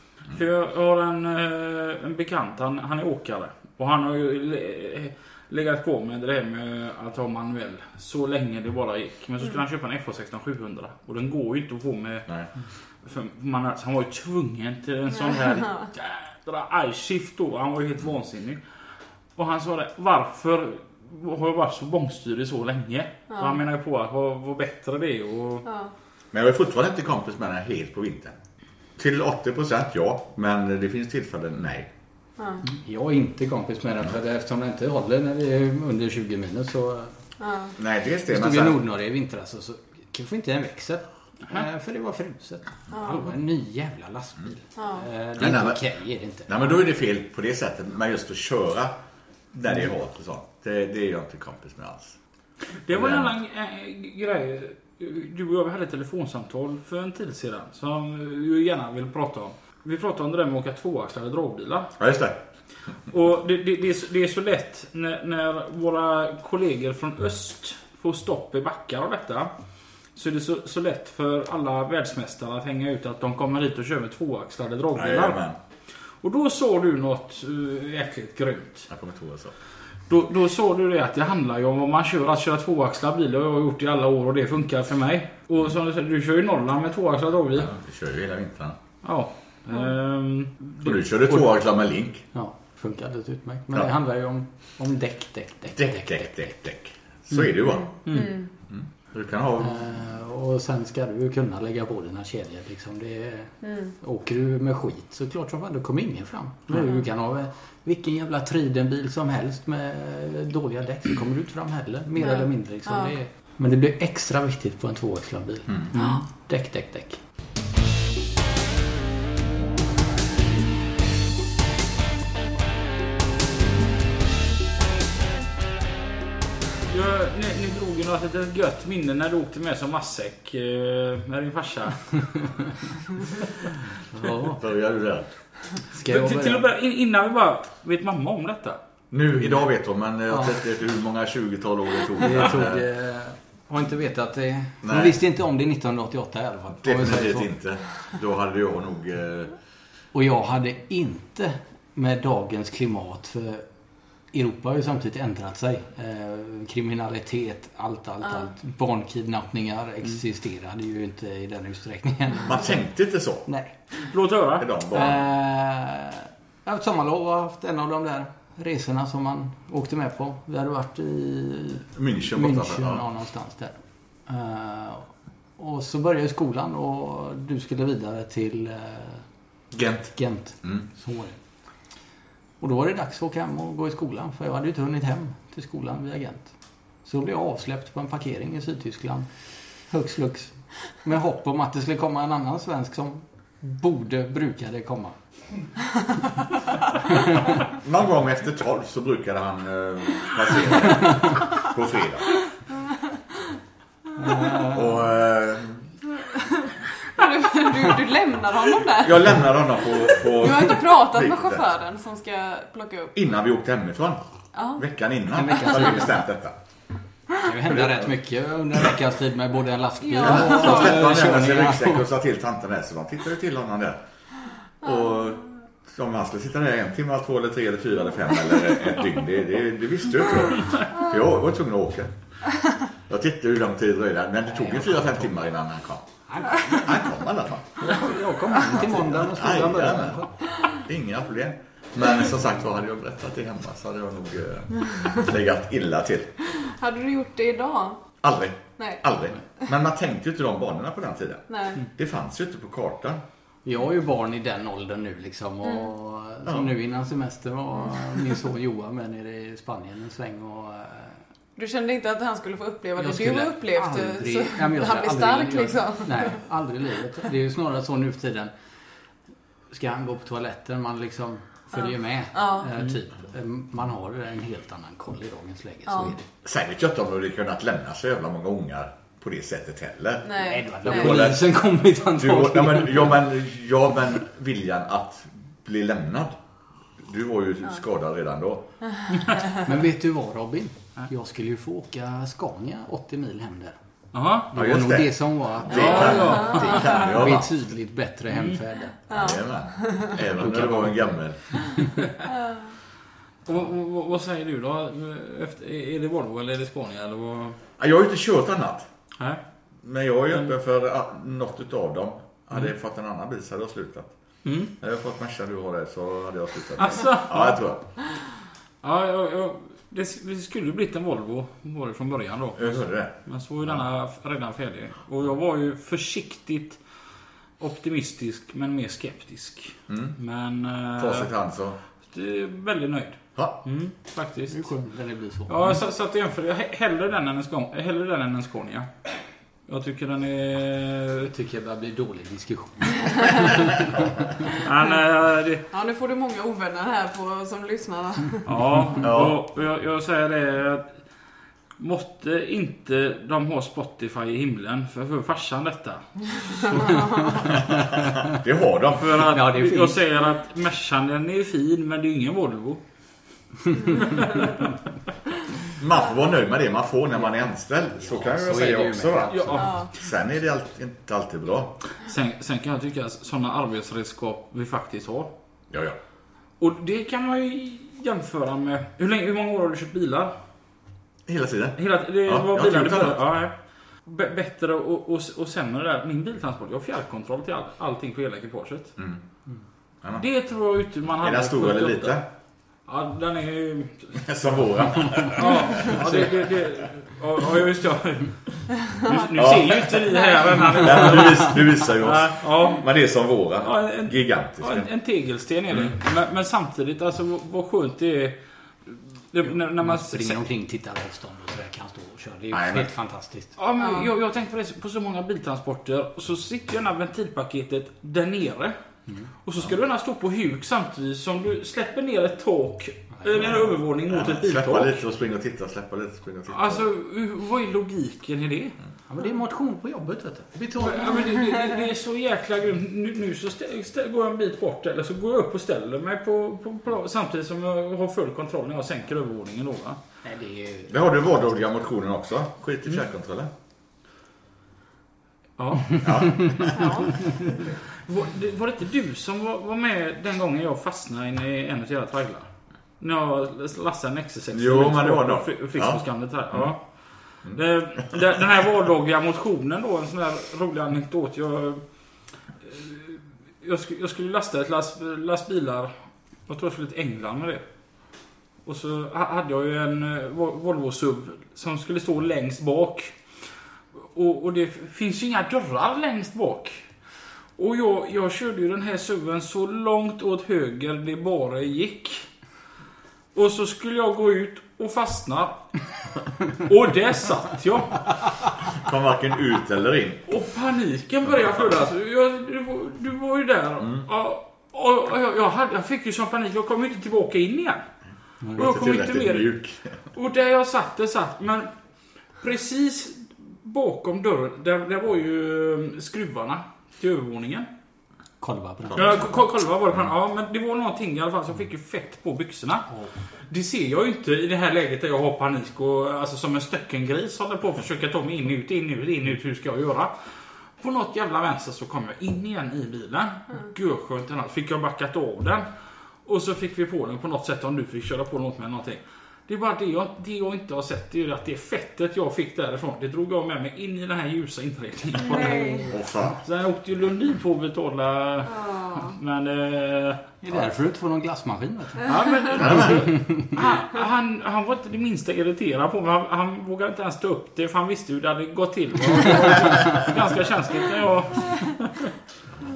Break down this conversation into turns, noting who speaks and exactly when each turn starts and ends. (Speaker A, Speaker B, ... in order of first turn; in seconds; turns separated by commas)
Speaker A: 0.3-12.3, Speaker A: 13.0-18.6, Speaker B: 15.5-15.8, Speaker A: 19.4-25.7, Speaker B: 23.3-23.6, Speaker B: 25.6-25.9, Speaker C: 26.3-28.4, Speaker C: 29.0-31.9, Speaker B: 32.4-32.6, Speaker D: 32.6-37.1, Speaker B: 37.4-37.8, Speaker C: 37.8-38.8, Speaker D: 38.3-46.6, Speaker B: 42.9-43.2, Speaker B: 44.8-45.0, Speaker C: 45.4-45.8, Speaker C: 46.5-48.9, Speaker C: 49.5-52.1, Speaker A: 52.8-61.9, Speaker C: 52.9-53.3, Speaker C: 62.0-62.4, Speaker A: 63.1-69.5, Speaker A: 70.1-75.4, Speaker C: 74.9-75.6, Speaker A: 76.2-78.9, Speaker C: 78.9-79.5, Speaker A: 80.1-87.7, Speaker C: 87.6-88.8, Speaker A: 89.0-91.4, Speaker C: 90.8-92.2, Speaker D: 92.3-96.3, Speaker C: 95.7-97.9, Speaker A: 98.0-98.4, Speaker B: 98.0-98.5, Speaker C: 98.7-99.8, Speaker D: 99.6-117.2, Speaker B: 103.6-103.9, Speaker B: 112.2-113.1, Speaker A: 126.9-132.5, Speaker D: 134.1-134.6, Speaker C: 134.4-135.3, Speaker D: 135.9-136.7, Speaker A: 136.1-138.8, Speaker C: 139.1-142.8, Speaker D: 142.2-147.5, Speaker C: 144.8-145.2, Speaker C: 146.8-149.5, Speaker D: 150.1-153.6, Speaker D: 154.3-162.7, Speaker C: 162.4-163.4, Speaker D: 163.5-163.7, Speaker A: 164.0-164.7, Speaker C: 164.6-165.2, Speaker D: 164.9-179.2, Speaker C: 171.9-173.0, Speaker C: 179.7-180.8, Speaker D: 180.2-181.4, Speaker D: 182.6-186.5, Speaker D: 187.0-189.3, Speaker D: 189.9-195.2, Speaker D: 197.1-197.5, Speaker C: 197.7-202.4, Speaker D: 204.2-204.9, Speaker C: 204.5-205.9, Speaker B: 206.3-209.4, Speaker C: 209.0-211.7, Speaker B: 210.2-213.1, Speaker C: 213.1-214.2, Speaker B: 214.5-214.8, Speaker C: 214.8-216.6, Speaker D: 215.3-216.2, Speaker D: 217.4-222.0, Speaker C: 217.6-218.1, Speaker B: 220.0-220.9, Speaker C: 220.2-224.0, Speaker C: 224.8-232.1, Speaker C: 233.1-238.0, Speaker D: 234.5-235.1, Speaker D: 236.3-236.9, Speaker D: 237.8-240.3, Speaker C: 238.5-246.3, Speaker B: 246.5-248.0, Speaker C: 248.2-253.2, Speaker B: 251.5-251.8, Speaker D: 253.6-261.1, Speaker B: 261.6-266.4, Speaker D: 263.0-268.5, Speaker D: 269.7-276.2, Speaker B: 272.3-272.7, Speaker C: 276.4-281.5, Speaker B: 280.2-281.2, Speaker D: 280.4-283.2, Speaker C: 282.1-286.4, Speaker C: 287.0-288.7, Speaker D: 289.6-293.8, Speaker A: 294.1-294.5, Speaker C: 294.5-297.5, Speaker D: 294.5-299.0, Speaker A: 295.7-297.0, Speaker A: 298.3-298.6, Speaker B: 299.1-300.1, Speaker C: 299.1-301.6, Speaker D: 300.4-301.0, Speaker B: 302.3-302.7, Speaker A: 303.4-307.6, Speaker C: 307.8-308.9, Speaker C: 309.8-314.1, Speaker A: 314.4-314.7, Speaker C: 314.8-317.9, Speaker A: 316.8-317.6, Speaker A: 318.8-326.8, Speaker C: 322.6-323.1, Speaker A: 327.6-331.3, Speaker C: 329.9-330.1, Speaker C: 331.0-331.8, Speaker A: 332.1-334.7, Speaker D: 334.5-335.8, Speaker A: 335.5-338.9, Speaker A: 339.7-341.3, Speaker D: 341.2-344.3, Speaker A: 344.5-345.6, Speaker B: 345.7-348.5, Speaker A: 348.4-350.9, Speaker C: 349.0-349.4, Speaker A: 351.8-357.1, Speaker B: 356.6-357.5, Speaker D: 357.1-358.4, Speaker C: 357.7-359.3, Speaker A: 358.9-362.8, Speaker D: 359.3-360.0, Speaker A: 363.7-364.7, Speaker C: 365.7-371.8, Speaker D: 367.9-369.8, Speaker A: 369.3-369.9, Speaker A: 372.0-375.3, Speaker C: 375.7-376.0, Speaker A: 376.6-380.3, Speaker C: 381.3-383.2, Speaker A: 381.8-383.5, Speaker A: 384.1-388.9, Speaker C: 389.0-389.2, Speaker A: 390.2-392.2, Speaker C: 391.2-392.3, Speaker A: 392.9-394.2, Speaker C: 394.2-396.5, Speaker A: 395.3-398.3, Speaker A: 398.9-402.9, Speaker C: 399.3-400.1, Speaker C: 400.7-404.9, Speaker A: 403.6-410.4, Speaker D: 409.4-413.5, Speaker C: 412.5-412.9, Speaker A: 413.6-418.8, Speaker B: 413.8-414.1, Speaker A: 419.4-425.0, Speaker C: 423.3-426.9, Speaker A: 426.5-428.8, Speaker D: 429.1-431.4, Speaker A: 430.8-440.0, Speaker D: 440.2-441.2, Speaker C: 440.9-443.5, Speaker A: 445.6-447.4, Speaker C: 446.0-447.0, Speaker B: 446.7-447.3, Speaker A: 448.0-452.5, Speaker A: 453.0-456.8, Speaker C: 454.5-456.0, Speaker A: 457.4-461.8, Speaker A: 462.6-465.9, Speaker A: 466.5-467.6, Speaker A: 468.6-473.1, Speaker A: 474.1-476.8, Speaker A: 477.6-482.3, Speaker A: 483.3-485.8, Speaker A: 486.5-488.1, Speaker C: 488.7-490.2, Speaker A: 490.3-497.8, Speaker D: 498.4-498.8, Speaker A: 498.6-499.5, Speaker C: 498.6-500.0, Speaker A: 500.1-501.7, Speaker A: 502.4-507.7, Speaker D: 508.4-509.2, Speaker A: 508.9-512.9, Speaker A: 513.5-520.1, Speaker A: 520.8-525.6, Speaker A: 526.2-540.2, Speaker B: 535.2-535.9, Speaker D: 535.4-535.9, Speaker C: 535.9-536.4, Speaker B: 538.5-539.1, Speaker D: 540.4-542.1, Speaker A: 542.0-552.1, Speaker C: 542.5-543.1, Speaker D: 542.7-543.5